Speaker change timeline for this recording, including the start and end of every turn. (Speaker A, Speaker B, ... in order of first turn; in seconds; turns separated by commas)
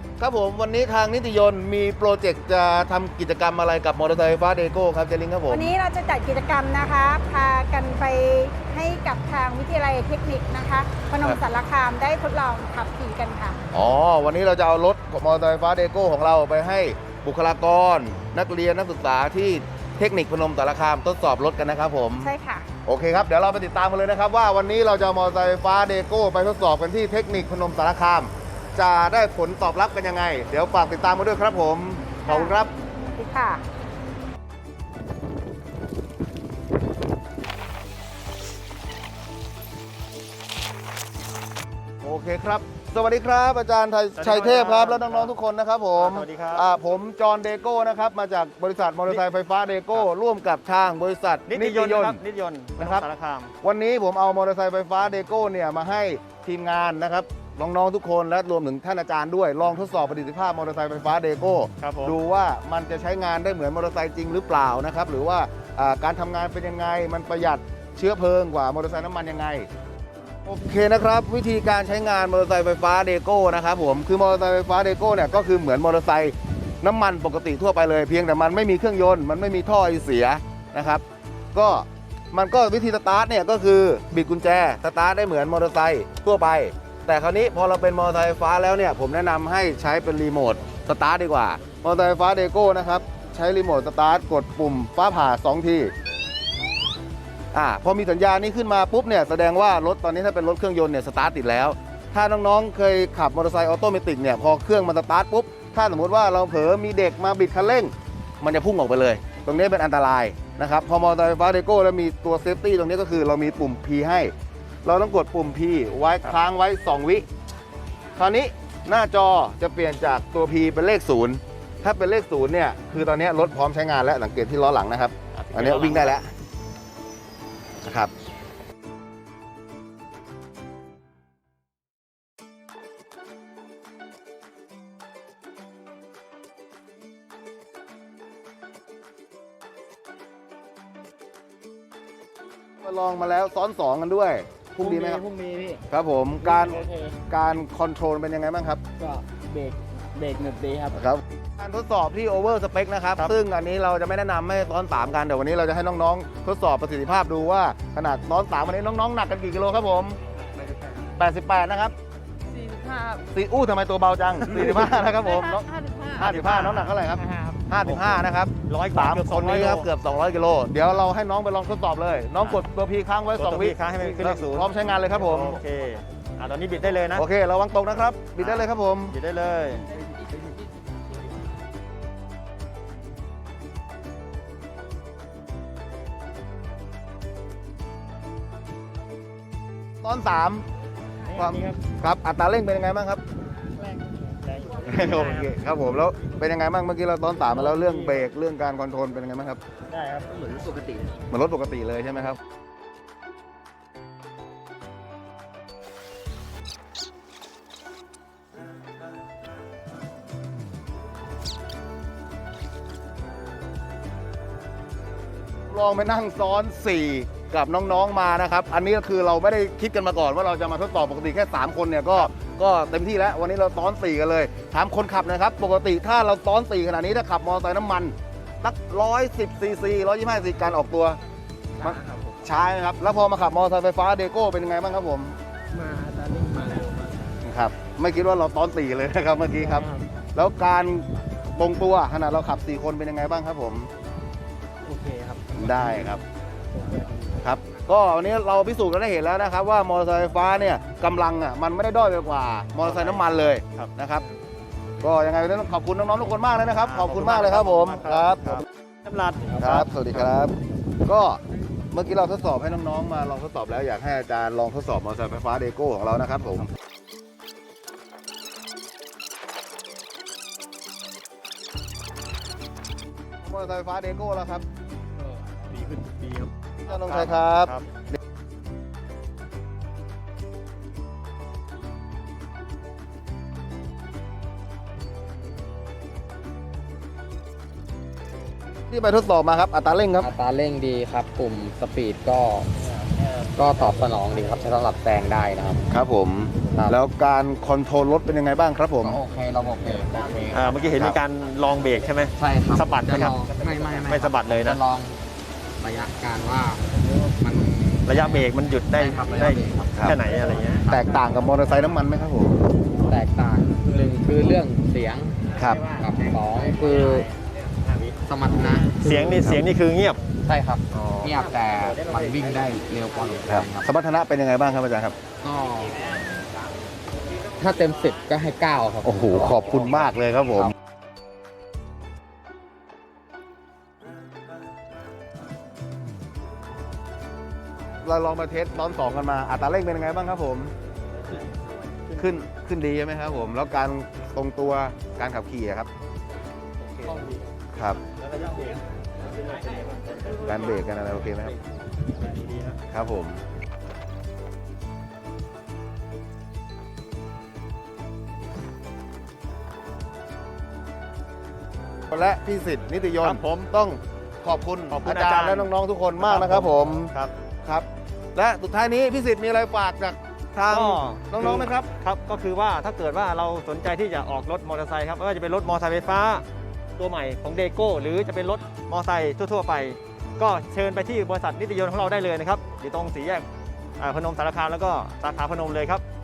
Speaker A: 0.2-5.7, Speaker B: 5.5-13.6, Speaker A: 13.7-22.3, Speaker B: 22.2-22.7, Speaker A: 22.9-32.7, Speaker B: 32.3-32.6, Speaker B: 33.1-33.6, Speaker A: 42.0-52.2, Speaker C: 44.2-45.3, Speaker C: 46.0-46.6, Speaker C: 51.5-53.5, Speaker A: 52.8-53.1, Speaker A: 53.6-69.7, Speaker C: 61.8-62.2, Speaker A: 70.5-95.9, Speaker A: 97.5-114.3, Speaker A: 114.8-117.3, Speaker A: 118.2-126.3, Speaker C: 125.3-126.2, Speaker A: 127.8-128.1, Speaker A: 142.8-145.2, Speaker D: 144.8-145.8, Speaker A: 145.9-148.8, Speaker D: 146.4-147.2, Speaker D: 149.0-151.0, Speaker A: 150.9-160.2, Speaker D: 160.7-161.0, Speaker A: 161.2-161.9, Speaker D: 162.5-163.2, Speaker A: 163.3-175.6, Speaker D: 165.2-166.2, Speaker C: 166.2-166.9, Speaker D: 167.3-167.6, Speaker C: 167.8-169.9, Speaker C: 173.3-177.3, Speaker A: 177.1-179.1, Speaker C: 178.4-179.9, Speaker A: 190.0-190.7, Speaker C: 191.3-191.8, Speaker A: 191.3-193.2, Speaker C: 194.5-195.5, Speaker A: 194.8-199.6, Speaker C: 197.5-198.3, Speaker C: 199.9-200.7, Speaker D: 200.6-201.1, Speaker A: 201.3-202.4, Speaker A: 215.7-231.2, Speaker A: 231.8-235.4, Speaker D: 231.8-232.3, Speaker D: 235.7-237.3, Speaker A: 237.4-243.9, Speaker D: 239.6-240.1, Speaker D: 244.8-247.4, Speaker A: 245.5-246.2, Speaker A: 247.4-254.2, Speaker C: 252.8-253.9, Speaker A: 255.0-258.6, Speaker C: 256.8-260.3, Speaker A: 259.6-261.4, Speaker A: 261.9-266.7, Speaker A: 273.4-274.6, Speaker C: 275.7-277.8, Speaker A: 276.9-277.8, Speaker A: 288.9-290.3, Speaker E: 290.2-292.7, Speaker E: 293.5-295.9, Speaker A: 295.9-299.2, Speaker E: 299.0-300.9, Speaker C: 300.5-303.4, Speaker A: 300.9-301.2, Speaker E: 302.4-305.2, Speaker C: 304.1-304.8, Speaker E: 305.8-306.9, Speaker E: 307.4-310.1, Speaker C: 308.1-310.9, Speaker A: 310.9-312.6, Speaker E: 313.1-315.4, Speaker A: 315.6-315.8, Speaker E: 315.9-317.3, Speaker E: 318.3-319.6, Speaker C: 318.9-320.2, Speaker E: 320.4-323.9, Speaker A: 320.9-321.3, Speaker A: 323.5-325.2, Speaker E: 325.4-326.0, Speaker E: 327.6-330.7, Speaker A: 329.0-330.7, Speaker A: 338.0-340.7, Speaker A: 342.2-345.9, Speaker C: 347.0-347.4, Speaker A: 347.8-348.0, Speaker C: 348.2-348.7, Speaker C: 349.6-350.6, Speaker A: 350.4-351.6, Speaker C: 352.1-352.8, Speaker A: 352.9-353.4, Speaker A: 362.1-367.1, Speaker C: 363.2-363.7, Speaker C: 364.9-367.3, Speaker A: 367.6-371.9, Speaker C: 370.7-376.4, Speaker C: 377.0-383.5, Speaker C: 384.0-386.0